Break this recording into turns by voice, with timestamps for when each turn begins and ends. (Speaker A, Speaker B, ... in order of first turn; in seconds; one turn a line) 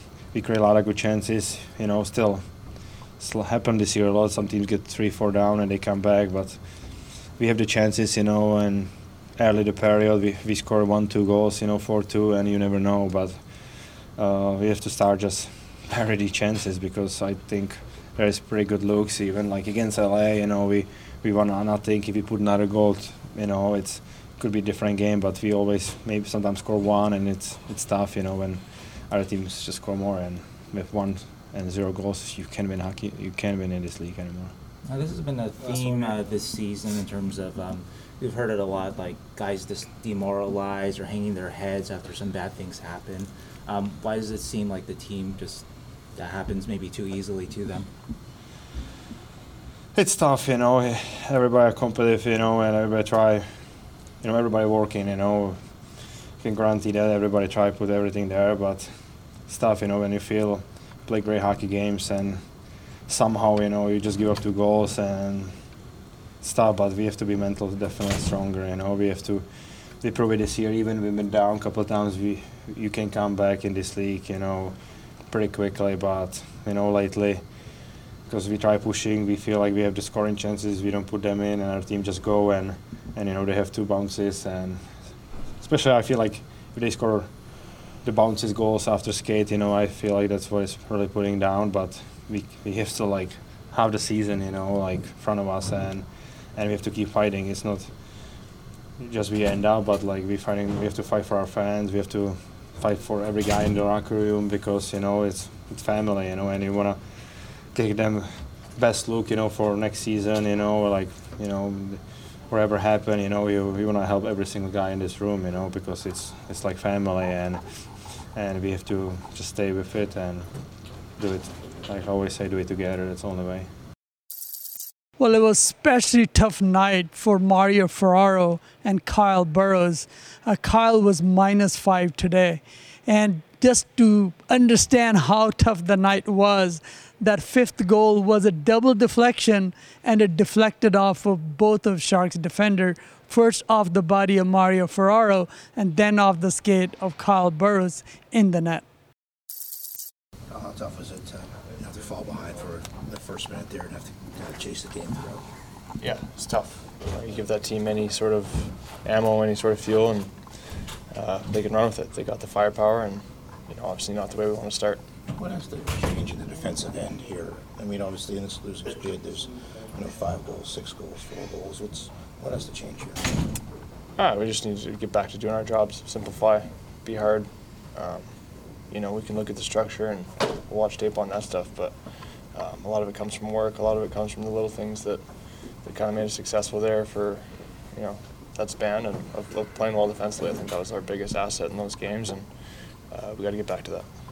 Speaker A: 0.3-2.5
Speaker A: 3.2-6.6
Speaker A: 7.3-13.4
Speaker A: 14.1-34.5
Speaker B: 34.9-47.9
Speaker A: 49.9-53.5
Speaker A: 54.2-55.6
Speaker A: 56.4-58.9
Speaker A: 59.5-62.4
Speaker A: 63.1-65.5
Speaker A: 66.4-74.8
Speaker A: 75.3-77.4
Speaker A: 78.3-84.9
Speaker A: 85.6-87.3
Speaker A: 88.0-97.9
Speaker A: 99.0-107.0
Speaker A: 107.7-117.6
Speaker A: 118.3-120.5
Speaker A: 121.2-123.7
Speaker C: 125.2-148.8
Speaker D: 150.5-155.4
Speaker E: 156.0-160.3
Speaker E: 161.1-165.0
Speaker D: 165.3-173.2
Speaker E: 174.2-178.3
Speaker E: 178.9-181.9
Speaker E: 182.5-185.2
Speaker E: 185.8-192.5
Speaker E: 193.1-194.1